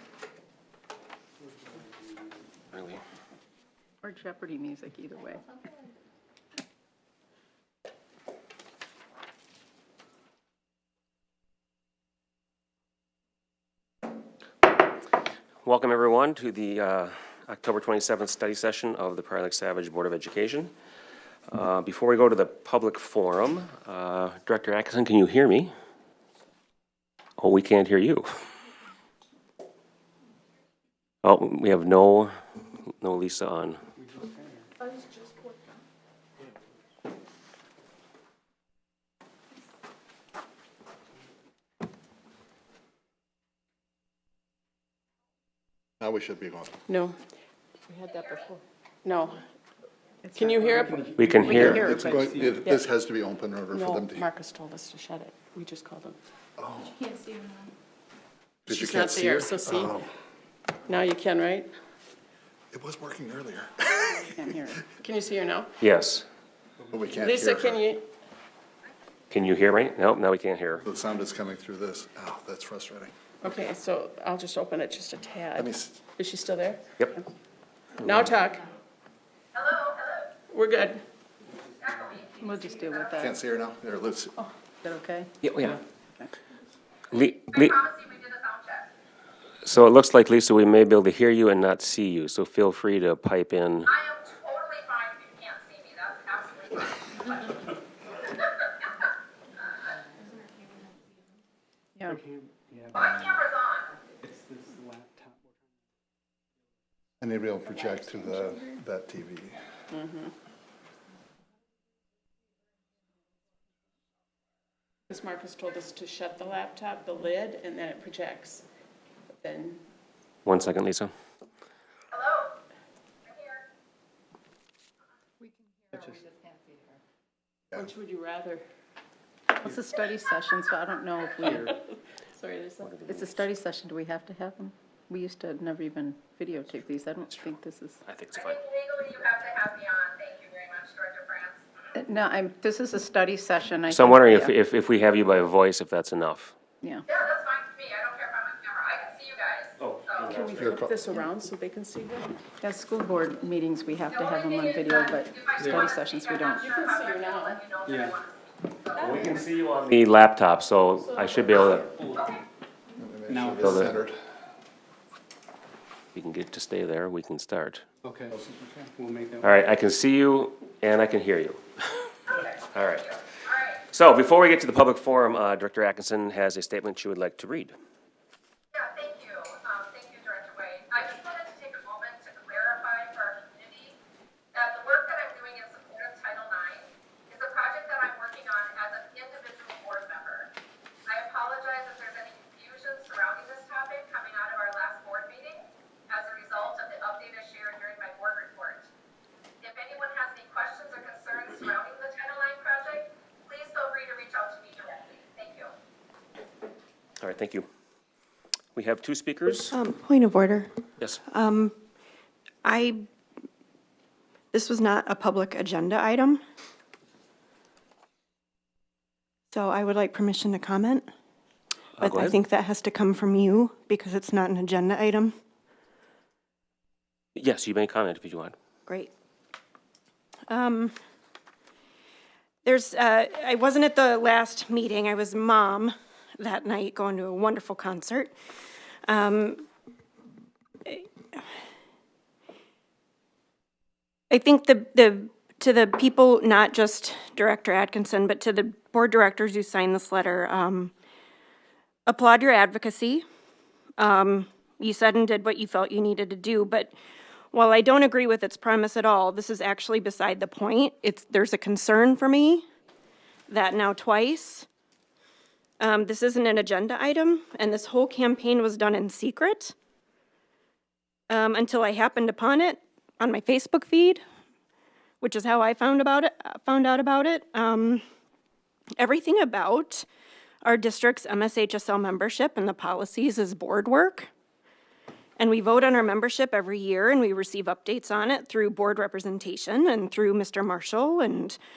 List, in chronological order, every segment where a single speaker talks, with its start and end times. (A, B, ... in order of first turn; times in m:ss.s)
0:01.4-0:02.1 A
0:02.7-0:03.0 B
0:04.0-0:05.4 C
0:15.6-0:20.7 B
0:21.5-0:25.7 B
0:27.4-0:28.3 B
0:31.2-0:32.3 B
0:32.9-0:33.8 B
0:34.0-0:34.7 A
0:34.9-0:35.5 D
0:46.0-0:46.8 E
0:46.9-0:47.2 D
0:47.9-0:49.4 D
0:48.1-0:48.4 F
0:50.2-0:51.7 C
0:50.3-0:52.0 D
0:50.8-0:52.6 A
0:51.2-0:51.9 B
0:51.5-0:54.3 E
0:53.7-0:56.2 D
0:56.6-0:57.0 E
0:58.7-1:00.1 E
0:58.7-1:00.0 D
1:00.9-1:01.7 D
1:02.7-1:04.3 E
1:04.1-1:04.8 C
1:05.0-1:05.7 D
1:05.8-1:06.2 B
1:06.9-1:07.8 E
1:07.2-1:08.0 D
1:09.3-1:10.8 B
1:10.8-1:13.1 E
1:13.4-1:16.8 D
1:15.5-1:16.0 E
1:18.0-1:18.3 B
1:18.0-1:18.7 D
1:19.5-1:20.3 F
1:20.5-1:21.0 D
1:21.7-1:23.2 F
1:22.4-1:23.4 C
1:23.2-1:24.3 E
1:24.4-1:26.3 C
1:25.4-1:25.8 B
1:27.1-1:27.8 B
1:27.1-1:28.9 F
1:29.6-1:33.9 B
1:33.9-1:37.6 F
1:42.1-1:43.3 A
1:42.9-1:43.9 F
1:44.2-1:45.5 A
1:47.2-1:49.6 E
1:50.0-1:50.2 D
1:55.1-1:58.6 D
1:59.4-1:59.8 D
2:00.4-2:01.1 B
2:02.1-2:02.6 F
2:03.3-2:03.6 F
2:05.9-2:06.2 A
2:07.7-2:08.6 D
2:09.6-2:11.8 C
2:11.4-2:11.7 A
2:12.4-2:18.0 C
2:12.8-2:13.5 B
2:18.0-2:18.6 B
2:18.3-2:21.6 F
2:21.9-2:24.5 C
2:23.9-2:26.5 B
2:27.1-2:30.4 F
2:29.8-2:30.7 B
2:30.3-2:32.4 D
2:30.5-2:31.1 E
2:32.6-2:36.8 C
2:34.1-2:39.2 F
2:35.6-2:36.0 A
2:36.6-2:37.7 D
2:37.8-2:38.2 A
2:38.9-2:42.0 B
2:41.0-2:41.8 D
2:43.0-2:44.2 E
2:43.3-2:44.0 A
2:43.6-2:44.0 B
2:46.1-2:47.8 B
2:48.0-2:49.6 A
2:48.3-2:48.8 E
2:49.4-2:52.1 B
2:52.3-2:53.8 F
2:52.7-2:53.1 B
2:53.9-2:57.8 B
2:58.7-3:04.0 F
3:04.5-3:10.5 F
3:11.1-3:18.9 F
3:19.6-3:25.7 F
3:27.2-3:27.7 B
3:28.7-3:29.7 B
3:29.7-3:31.8 G
3:32.6-3:33.1 G
3:34.5-3:36.4 G
3:39.5-3:41.1 G
3:42.0-3:42.4 B
3:42.0-3:45.4 G
3:47.4-3:48.6 B
3:48.9-3:49.1 G
3:50.5-3:50.9 G
3:52.6-3:58.4 G
3:59.0-3:59.7 G
4:00.8-4:01.4 G
4:04.3-4:10.9 G
4:12.0-4:13.3 G
4:14.0-4:16.9 G
4:17.5-4:22.6 G
4:23.5-4:24.7 G
4:25.8-4:29.7 G
4:31.3-4:34.2 G
4:35.2-4:38.0 G
4:39.0-4:40.1 G
4:40.6-4:44.3 G
4:45.4-4:51.6 G